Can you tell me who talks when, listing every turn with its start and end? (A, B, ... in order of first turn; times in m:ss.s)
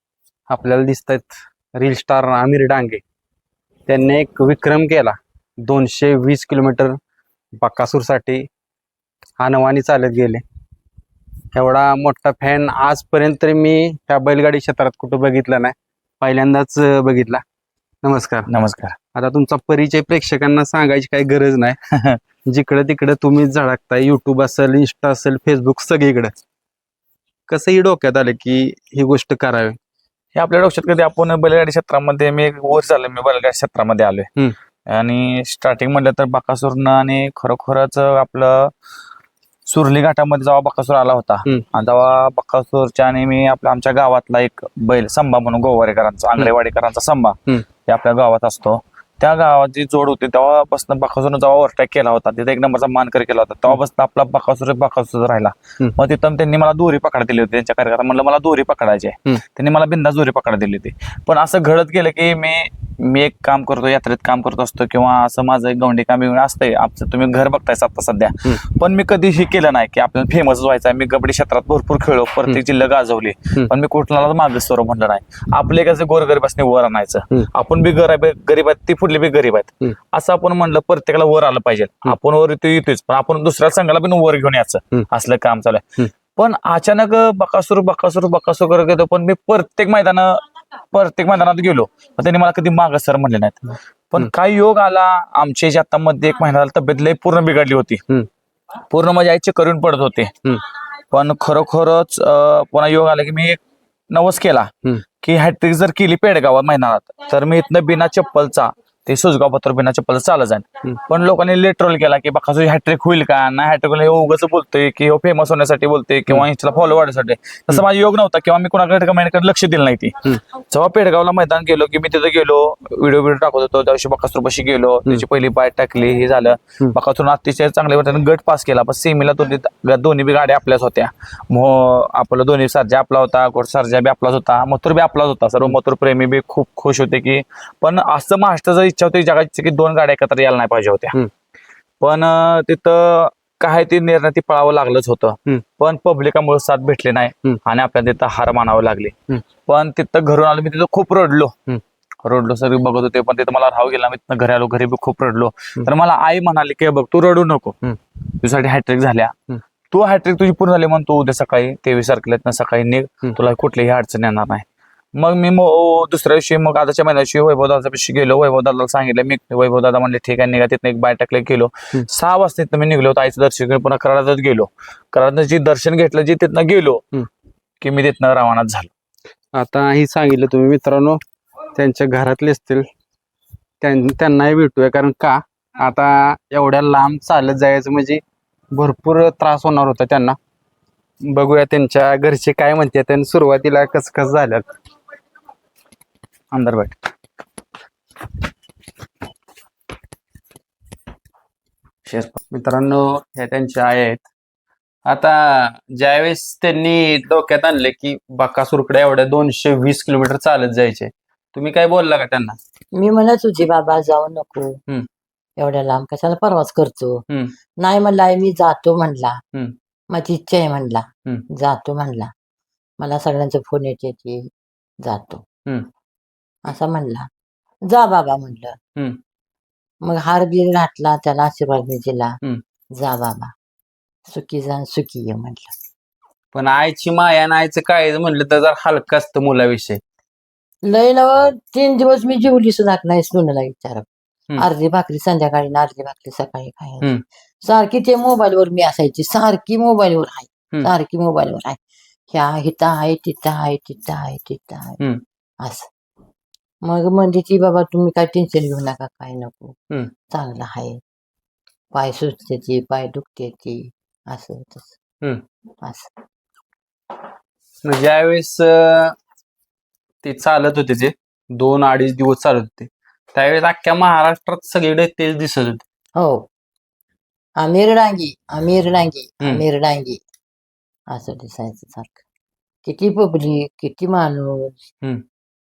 0:00.5-0:03.0 A
0:03.9-0:07.0 A
0:07.5-0:08.5 A
0:09.4-0:10.4 A
0:11.5-0:17.4 A
0:18.0-0:18.5 A
0:18.5-0:19.0 B
0:19.1-0:21.8 A
0:21.9-0:22.2 B
0:22.4-0:26.3 A
0:27.5-0:29.8 A
0:30.3-0:34.3 B
0:34.9-0:38.7 B
0:39.6-1:38.0 B
1:38.9-1:40.4 B
1:41.1-2:21.2 B
2:22.0-2:31.6 B
2:32.2-2:39.4 B
2:39.9-2:57.0 B
2:57.8-2:58.9 B
2:59.5-3:01.2 A
3:01.7-3:02.9 A
3:03.8-3:10.4 A
3:11.2-3:14.6 A
3:16.5-3:17.0 B
3:22.0-3:22.4 B
3:22.5-3:24.3 A
3:25.0-3:32.6 A
3:32.9-3:34.8 C
3:35.6-3:37.2 C
3:37.8-3:39.4 C
3:40.1-3:42.3 C
3:43.0-3:44.5 C
3:45.0-3:45.4 C
3:46.6-3:47.3 C
3:47.8-3:48.8 C
3:50.0-3:52.4 C
3:52.9-3:53.5 C
3:54.2-3:55.7 C
3:56.5-4:00.0 A
4:00.8-4:04.1 C
4:04.6-4:07.1 C
4:07.6-4:11.8 C
4:12.3-4:15.0 C
4:15.6-4:15.9 C
4:16.8-4:19.8 C
4:20.3-4:21.0 C
4:21.9-4:24.9 C
4:25.8-4:26.1 C
4:27.8-4:29.2 A
4:30.2-4:35.8 A
4:36.2-4:36.4 C
4:37.6-4:40.2 C
4:41.1-4:42.2 C
4:42.8-4:44.8 C